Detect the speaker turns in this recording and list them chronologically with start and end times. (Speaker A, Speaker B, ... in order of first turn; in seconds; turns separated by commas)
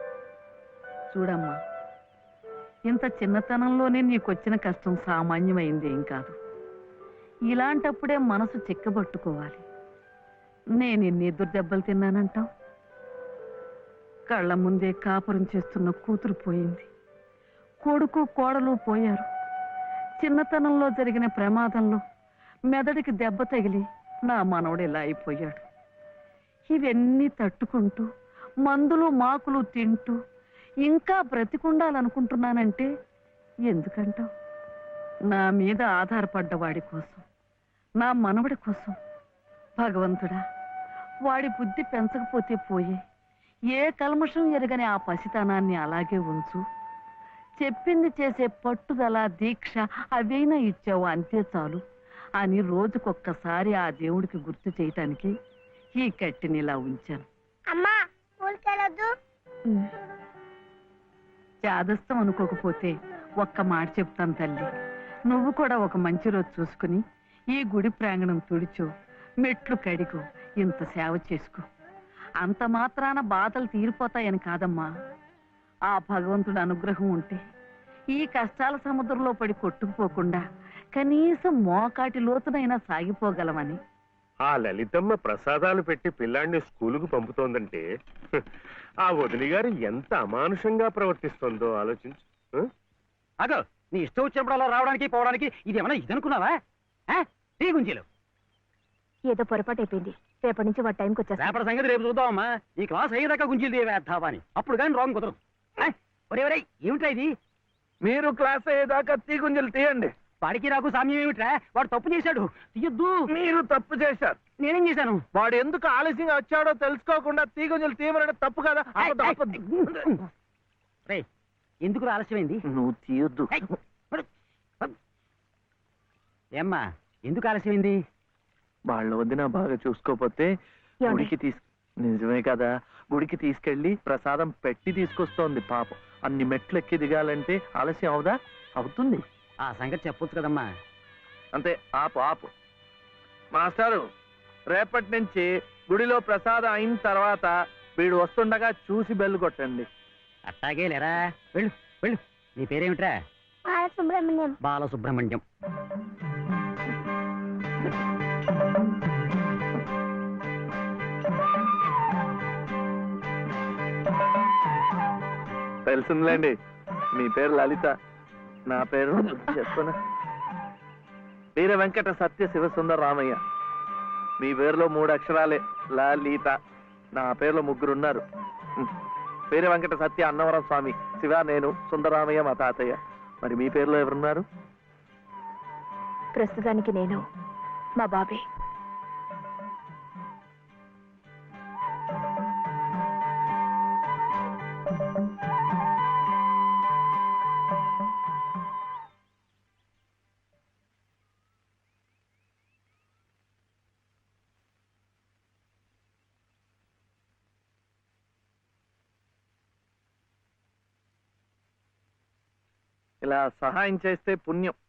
Speaker A: 1.1-1.6, Speaker A: 2.9-6.3, Speaker A: 7.5-9.6, Speaker A: 10.8-12.4, Speaker A: 14.3-16.9, Speaker A: 17.8-19.2, Speaker A: 20.2-22.0, Speaker A: 22.7-25.6, Speaker A: 26.7-28.1, Speaker A: 28.6-30.1, Speaker A: 30.8-32.9, Speaker A: 33.7-34.2, Speaker A: 35.3-37.2, Speaker A: 38.0-39.0, Speaker A: 39.8-40.4, Speaker A: 41.3-43.0, Speaker A: 43.7-46.6, Speaker A: 47.6-51.8, Speaker A: 52.4-55.3, Speaker A: 56.0-57.2, Speaker B: 57.7-59.1, Speaker A: 61.6-64.7, Speaker A: 65.3-67.0, Speaker A: 67.5-68.9, Speaker A: 69.4-71.6, Speaker A: 72.4-74.9, Speaker A: 75.9-77.4, Speaker A: 78.1-80.4, Speaker A: 80.9-83.8, Speaker C: 84.5-87.8, Speaker C: 89.1-92.7, Speaker D: 93.4-96.5, Speaker D: 97.1-98.0, Speaker E: 99.3-101.6, Speaker D: 101.4-107.3, Speaker F: 108.0-110.1, Speaker D: 110.4-113.2, Speaker F: 113.3-114.4, Speaker D: 114.6-115.2, Speaker F: 115.3-120.1, Speaker D: 119.0-120.2, Speaker D: 121.8-122.6, Speaker F: 122.7-123.8, Speaker D: 123.5-124.2, Speaker D: 126.6-128.0, Speaker F: 128.9-130.5, Speaker E: 131.0-131.3, Speaker F: 131.1-139.2, Speaker D: 139.6-140.6, Speaker F: 141.5-142.5, Speaker F: 143.5-144.0, Speaker F: 144.7-149.9, Speaker D: 150.5-153.1, Speaker B: 153.7-154.5, Speaker D: 154.6-155.4, Speaker F: 165.8-166.6, Speaker F: 167.1-167.9, Speaker F: 168.7-169.9, Speaker F: 171.6-173.4, Speaker F: 174.4-176.5, Speaker F: 177.2-178.2, Speaker F: 179.5-184.4, Speaker E: 186.3-187.2, Speaker E: 188.0-188.4, Speaker F: 213.2-214.8